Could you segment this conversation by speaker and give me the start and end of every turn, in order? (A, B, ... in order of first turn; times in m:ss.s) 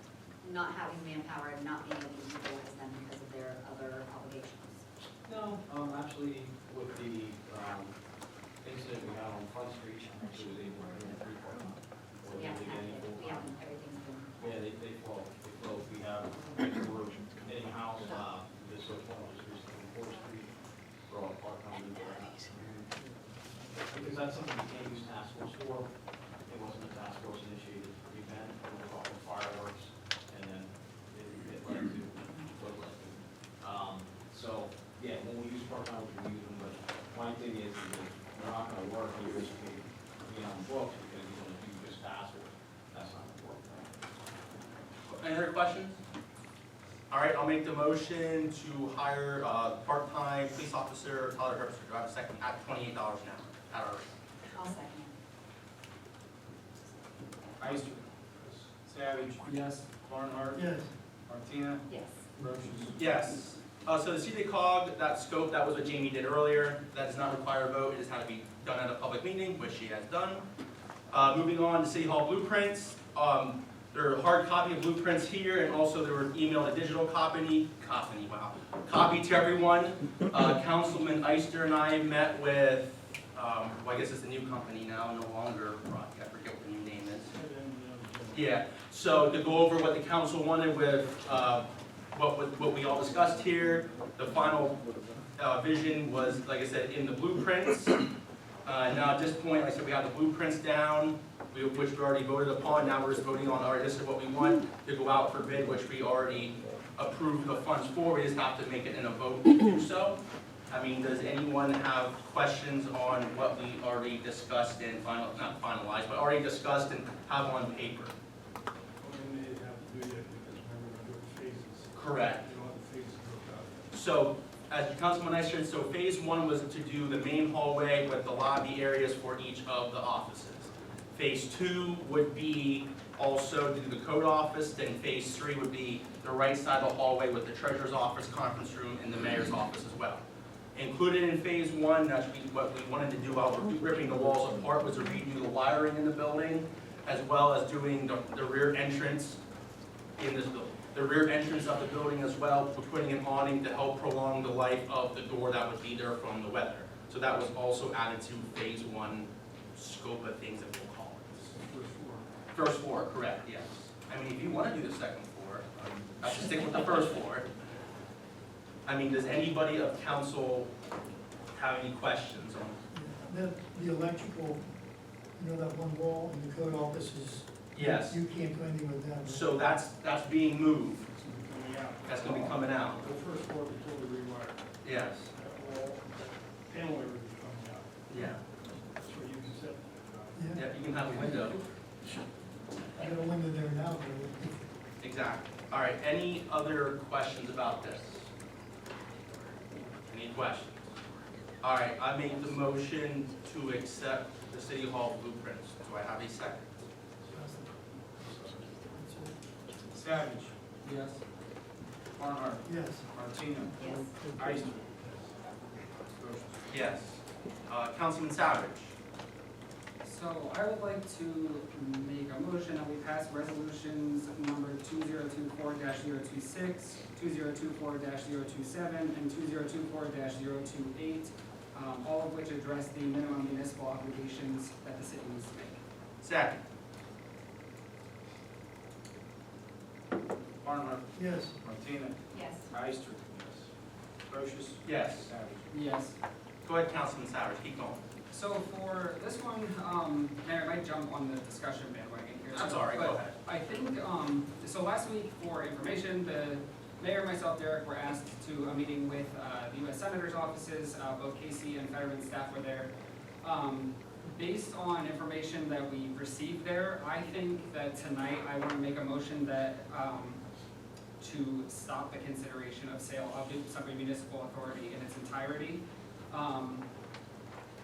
0:00.4-0:04.9 A
0:05.2-0:08.0 B
0:08.6-0:13.6 B
0:12.3-0:14.3 A
0:14.4-0:20.6 B
0:21.1-0:22.9 B
0:23.7-0:43.8 B
0:45.1-0:46.0 C
0:47.1-0:54.1 C
0:54.5-0:55.1 A
0:57.6-0:58.0 D
0:58.3-0:58.7 E
0:58.9-1:00.6 D
0:59.4-0:59.9 F
1:00.6-1:00.9 G
1:01.3-1:01.8 D
1:01.9-1:02.3 A
1:02.4-1:03.0 E
1:03.0-1:10.4 C
1:11.1-1:27.3 C
1:27.3-1:28.6 E
1:28.3-1:34.8 C
1:35.4-1:38.1 C
1:38.6-1:58.2 C
1:59.0-2:03.8 E
2:01.9-2:02.5 C
2:03.9-2:20.2 C
2:20.7-2:29.4 C
2:30.2-2:41.5 C
2:41.5-2:42.3 E
2:42.5-2:47.5 C
2:48.9-2:50.7 C
2:51.5-2:52.8 C
2:52.9-2:54.7 G
2:55.4-2:59.6 G
2:57.7-2:58.2 C
2:59.2-3:01.1 C
3:01.1-3:11.4 E
3:02.0-3:03.0 C
3:04.8-3:05.3 C
3:08.1-3:08.4 C
3:10.4-3:10.7 G
3:10.5-3:11.7 C
3:12.9-3:14.7 G
3:15.0-3:18.3 C
3:20.1-3:20.9 C
3:21.6-3:26.8 C
3:27.3-3:29.4 G
3:28.4-3:28.7 E
3:29.9-3:31.2 D
3:32.2-3:34.7 D
3:32.6-3:33.1 G
3:33.8-3:34.6 G
3:33.8-3:34.2 A
3:34.6-3:36.1 E
3:36.2-3:36.6 D
3:36.7-3:39.0 C
3:40.0-3:55.8 F
3:56.2-3:56.6 C
4:00.6-4:03.7 D
4:01.1-4:01.6 G
4:02.3-4:02.7 A
4:04.3-4:05.7 D
4:04.8-4:05.3 C
4:05.7-4:06.2 F
4:06.6-4:08.0 C
4:08.3-4:22.9 F
4:12.5-4:13.4 C
4:23.4-4:30.4 F
4:31.2-4:36.9 F